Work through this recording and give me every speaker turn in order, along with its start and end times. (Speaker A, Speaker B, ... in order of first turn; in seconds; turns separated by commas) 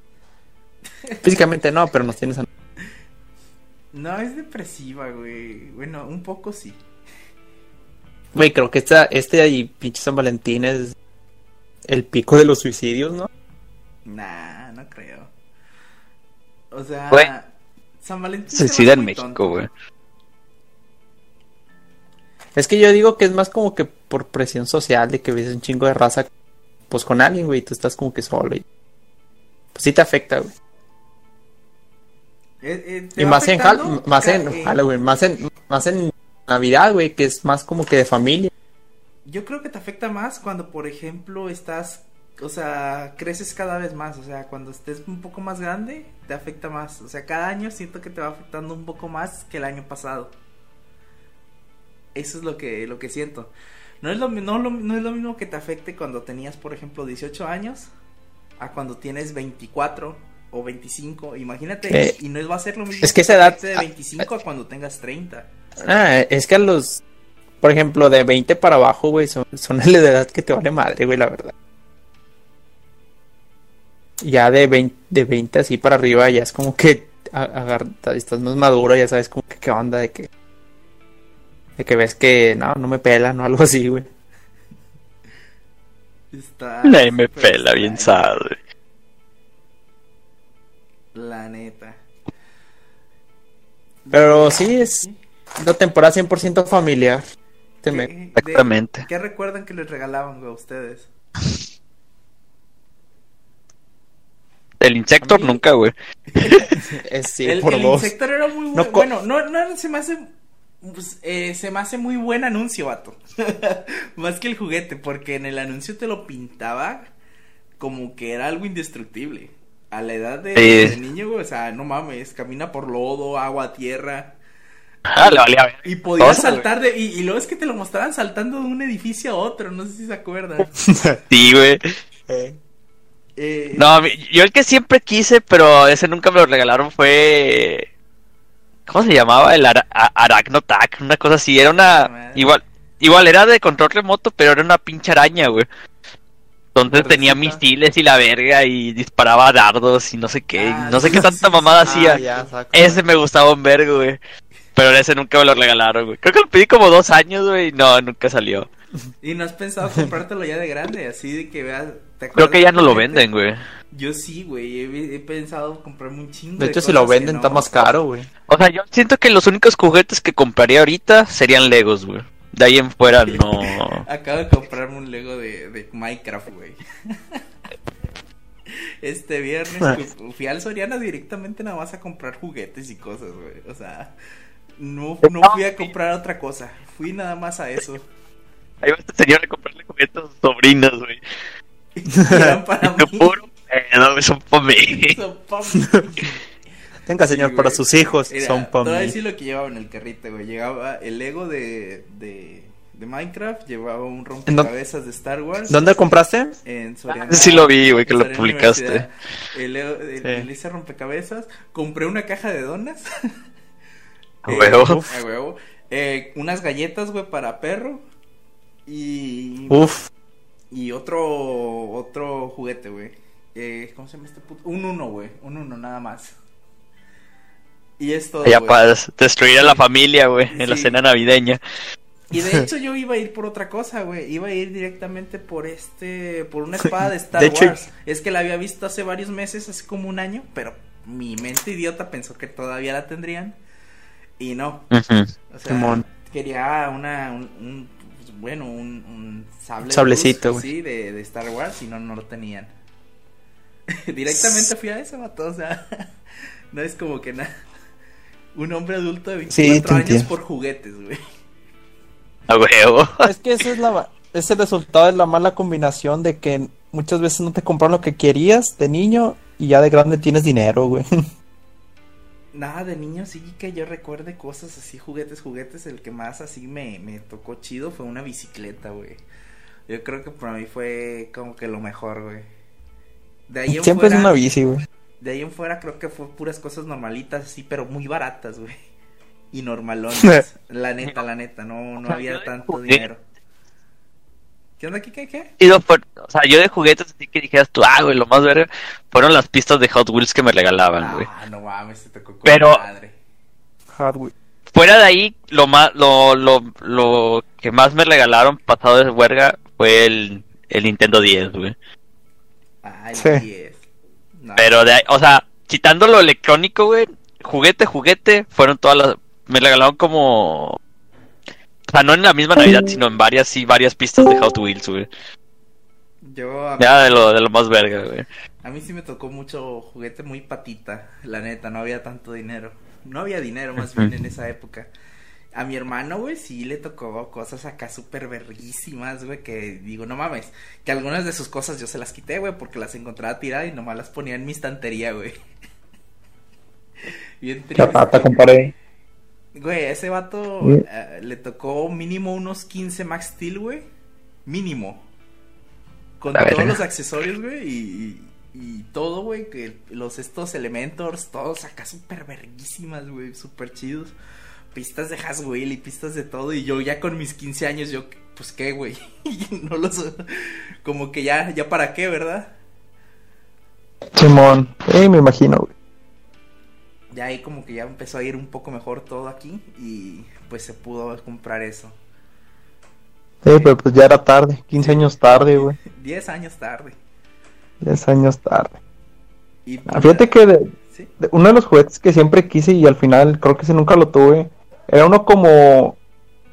Speaker A: 1.2-2.5, Speaker B: 3.9-6.8, Speaker A: 8.3-10.9, Speaker A: 11.8-13.3, Speaker B: 14.1-15.3, Speaker B: 16.7-19.6, Speaker C: 18.5-19.7, Speaker A: 22.6-26.3, Speaker A: 26.9-28.6, Speaker A: 29.8-30.5, Speaker B: 32.6-34.8, Speaker A: 33.2-38.5, Speaker B: 39.2-50.4, Speaker B: 52.1-57.9, Speaker B: 58.6-65.5, Speaker A: 61.9-62.1, Speaker A: 63.0-63.8, Speaker A: 65.8-67.0, Speaker A: 67.6-71.5, Speaker A: 74.2-80.3, Speaker A: 81.8-84.1, Speaker B: 86.3-88.3, Speaker C: 86.8-88.5, Speaker B: 91.1-92.0, Speaker B: 94.1-95.2, Speaker A: 94.1-95.0, Speaker A: 95.6-97.2, Speaker B: 97.8-101.1, Speaker A: 97.8-98.1, Speaker C: 98.4-99.1, Speaker C: 104.8-106.7, Speaker B: 105.2-105.6, Speaker B: 106.4-106.8, Speaker A: 106.8-108.1, Speaker B: 107.4-110.3, Speaker A: 108.8-109.1, Speaker B: 110.8-117.1, Speaker B: 117.8-124.4, Speaker C: 120.6-121.0, Speaker C: 125.1-126.7, Speaker B: 125.2-130.7, Speaker A: 130.9-131.2, Speaker C: 131.3-131.8, Speaker A: 132.3-132.6, Speaker B: 133.4-133.9, Speaker C: 133.8-137.9, Speaker C: 138.9-145.7, Speaker B: 141.6-142.6, Speaker C: 146.8-152.2, Speaker B: 146.9-147.6, Speaker B: 150.6-152.5, Speaker A: 151.9-153.0, Speaker C: 152.7-154.2, Speaker C: 154.8-158.7, Speaker B: 159.2-163.3, Speaker C: 162.4-163.6, Speaker B: 163.9-167.9, Speaker A: 166.6-168.3, Speaker C: 168.5-174.1, Speaker B: 173.1-176.8, Speaker B: 179.0-184.1, Speaker B: 184.8-188.0, Speaker C: 188.8-191.2, Speaker B: 192.0-193.3, Speaker A: 192.3-192.6, Speaker C: 193.0-195.2, Speaker B: 195.1-196.0, Speaker A: 197.1-199.2, Speaker B: 197.2-206.0, Speaker A: 205.7-206.6, Speaker B: 206.6-213.0, Speaker C: 207.1-209.1, Speaker A: 210.2-210.5, Speaker C: 214.5-215.0, Speaker B: 214.5-218.0, Speaker B: 218.9-220.0, Speaker A: 219.7-220.1, Speaker B: 220.7-226.3, Speaker B: 228.0-228.8, Speaker C: 228.4-231.6, Speaker B: 229.6-229.8, Speaker B: 230.5-231.0, Speaker B: 232.3-243.6, Speaker A: 237.4-237.8, Speaker B: 244.4-244.9, Speaker C: 244.9-245.3, Speaker B: 245.5-252.7, Speaker A: 245.7-246.1, Speaker A: 249.9-250.7, Speaker B: 254.1-255.8, Speaker B: 256.7-257.5, Speaker B: 258.6-261.2, Speaker A: 259.5-260.3, Speaker C: 262.5-263.3, Speaker A: 263.2-271.1, Speaker B: 272.5-279.2, Speaker B: 279.9-282.5, Speaker B: 283.5-284.4, Speaker A: 283.7-284.8, Speaker B: 285.2-288.8, Speaker B: 289.5-293.2, Speaker C: 292.1-293.0, Speaker B: 294.8-295.5, Speaker C: 295.6-301.3, Speaker B: 301.0-303.2, Speaker C: 302.5-302.8, Speaker A: 303.9-304.3, Speaker C: 304.7-311.8, Speaker B: 312.8-313.8, Speaker A: 313.2-313.4, Speaker B: 314.4-314.8, Speaker C: 314.6-320.8, Speaker C: 321.9-325.1, Speaker B: 326.2-327.2, Speaker C: 326.8-328.3, Speaker B: 328.6-334.9, Speaker C: 333.9-334.1, Speaker B: 335.6-345.3, Speaker B: 347.4-348.5, Speaker A: 347.8-348.7, Speaker B: 349.6-353.9, Speaker B: 354.5-355.0, Speaker B: 356.2-364.1, Speaker C: 356.3-356.8, Speaker B: 364.7-372.5, Speaker A: 374.2-375.7, Speaker B: 377.1-382.0, Speaker A: 383.4-385.8, Speaker B: 384.8-386.9, Speaker A: 387.8-388.8, Speaker B: 389.7-390.4, Speaker A: 389.9-396.0